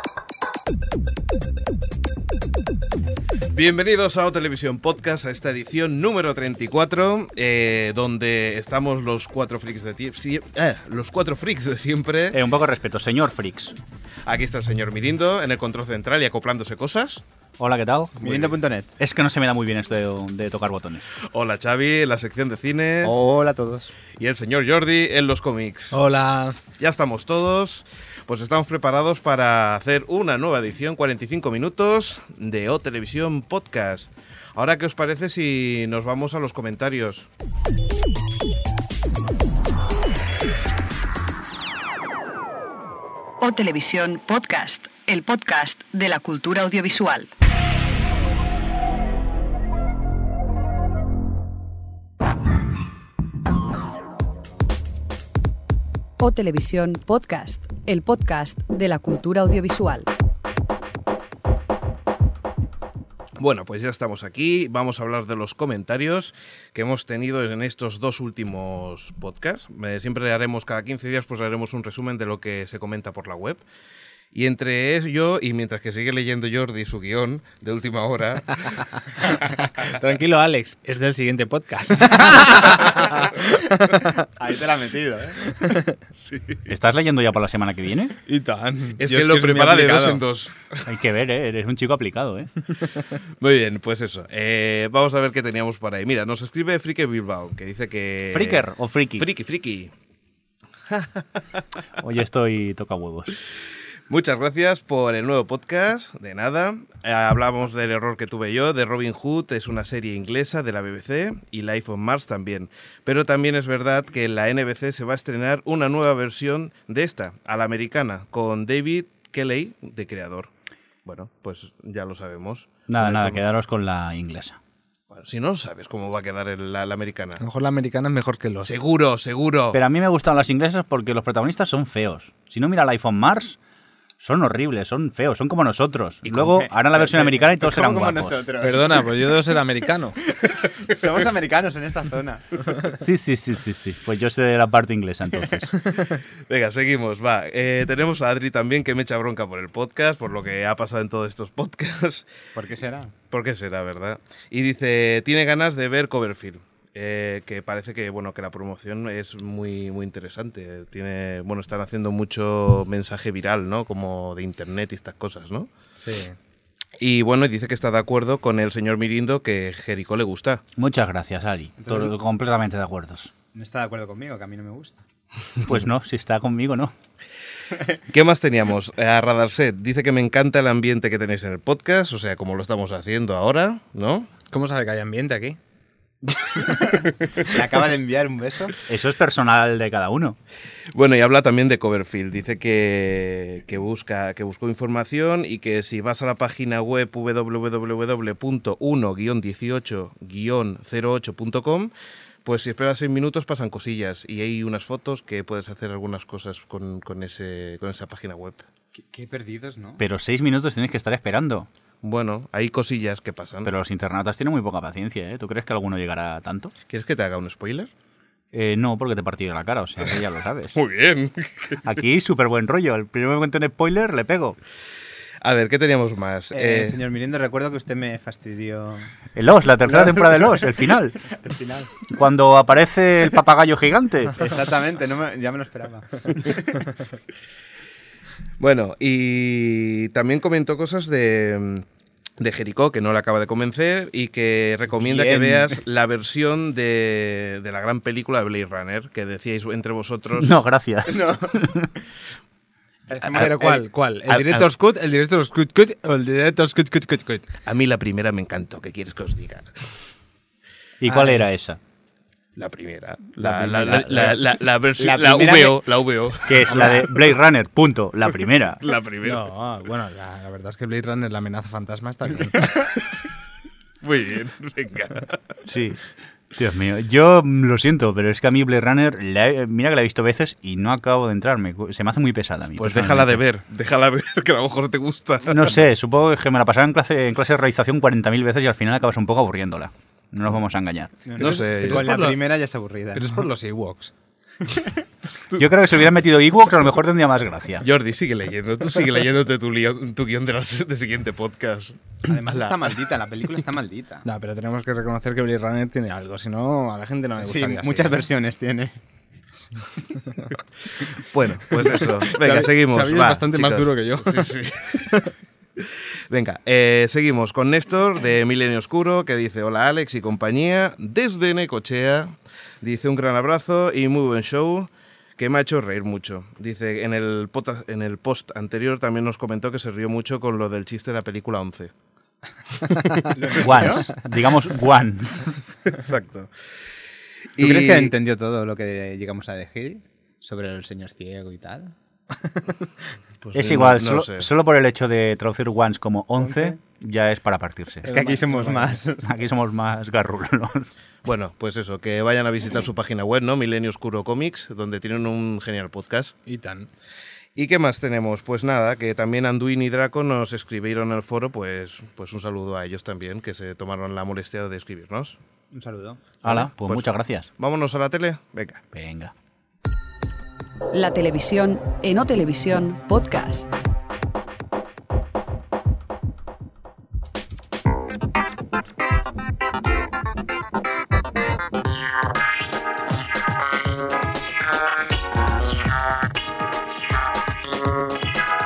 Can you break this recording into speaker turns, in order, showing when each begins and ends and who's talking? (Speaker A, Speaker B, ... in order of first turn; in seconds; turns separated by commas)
Speaker A: 3.5-12.4, Speaker B: 12.3-13.8, Speaker A: 14.2-17.2, Speaker B: 17.6-21.1, Speaker C: 18.2-18.9, Speaker A: 21.1-23.1, Speaker C: 23.0-23.9, Speaker A: 24.2-26.0, Speaker D: 25.9-26.6, Speaker A: 26.8-37.3, Speaker E: 43.4-47.3, Speaker E: 56.2-60.1, Speaker A: 63.4-73.6, Speaker A: 74.3-79.3, Speaker D: 79.4-84.2, Speaker C: 84.3-85.4, Speaker D: 85.4-85.9, Speaker A: 86.1-86.7, Speaker B: 86.7-88.1, Speaker D: 88.2-90.2, Speaker A: 89.0-90.7, Speaker B: 90.8-92.5, Speaker A: 93.4-99.9, Speaker B: 98.3-99.2, Speaker A: 100.9-101.4, Speaker B: 102.0-103.4, Speaker A: 104.1-120.5, Speaker A: 121.0-123.4, Speaker B: 122.9-124.6, Speaker A: 125.1-127.4, Speaker D: 127.4-128.7, Speaker A: 128.6-129.8, Speaker B: 129.7-133.6, Speaker B: 134.2-138.4, Speaker C: 136.2-139.1, Speaker D: 138.6-140.2, Speaker C: 140.3-142.8, Speaker B: 142.9-145.7, Speaker A: 146.5-152.3, Speaker C: 152.5-153.1, Speaker A: 153.3-165.7, Speaker D: 166.0-166.3, Speaker A: 167.0-170.6, Speaker B: 170.8-173.3, Speaker C: 171.8-172.1, Speaker C: 173.5-175.0, Speaker B: 175.6-176.9, Speaker A: 178.1-184.3, Speaker D: 184.5-185.6, Speaker C: 187.4-188.8, Speaker B: 188.8-190.4, Speaker A: 190.9-201.9, Speaker A: 202.4-208.6, Speaker C: 208.9-210.0, Speaker B: 210.0-211.7, Speaker A: 212.0-213.7, Speaker B: 213.6-216.7, Speaker A: 216.9-217.9, Speaker B: 218.5-220.8, Speaker A: 220.7-221.8, Speaker B: 221.8-224.6, Speaker A: 225.4-227.0, Speaker C: 226.5-229.1, Speaker B: 229.3-231.2, Speaker C: 229.9-230.7, Speaker C: 231.3-231.9, Speaker B: 232.1-234.5, Speaker C: 234.3-236.9, Speaker A: 238.6-241.8, Speaker A: 242.4-250.6, Speaker C: 245.0-245.8, Speaker B: 250.4-251.9, Speaker C: 251.1-251.8, Speaker C: 253.1-253.8, Speaker D: 253.3-257.5, Speaker A: 254.3-254.7, Speaker A: 257.6-259.9, Speaker B: 261.0-261.8, Speaker D: 261.1-261.4, Speaker A: 262.6-267.0, Speaker C: 263.4-264.4, Speaker C: 265.0-265.8, Speaker B: 266.4-268.8, Speaker A: 268.8-269.4, Speaker D: 269.2-272.8, Speaker A: 274.0-275.4, Speaker B: 275.7-283.4, Speaker A: 282.8-285.8, Speaker B: 285.5-291.1, Speaker C: 291.2-293.4, Speaker A: 291.4-292.1, Speaker D: 291.4-292.4, Speaker D: 293.1-294.1, Speaker A: 295.3-295.6, Speaker B: 295.6-297.9, Speaker A: 297.8-302.7, Speaker C: 302.2-304.2, Speaker D: 304.2-308.2, Speaker C: 307.4-309.0, Speaker D: 310.2-310.5, Speaker A: 311.1-315.2, Speaker D: 312.0-315.3, Speaker A: 315.8-331.9, Speaker A: 332.8-333.3, Speaker C: 333.3-334.1, Speaker B: 333.5-335.6, Speaker A: 335.9-336.5, Speaker A: 337.5-338.1, Speaker C: 337.6-341.9, Speaker A: 343.4-344.5, Speaker B: 343.5-348.1, Speaker D: 346.5-346.7, Speaker D: 348.0-349.0, Speaker C: 348.0-349.3, Speaker B: 349.2-350.9, Speaker A: 351.2-356.3, Speaker D: 356.4-356.9, Speaker A: 357.5-365.4, Speaker C: 365.7-366.2, Speaker B: 366.4-367.5, Speaker A: 366.4-368.8, Speaker B: 368.9-369.3, Speaker E: 370.9-373.7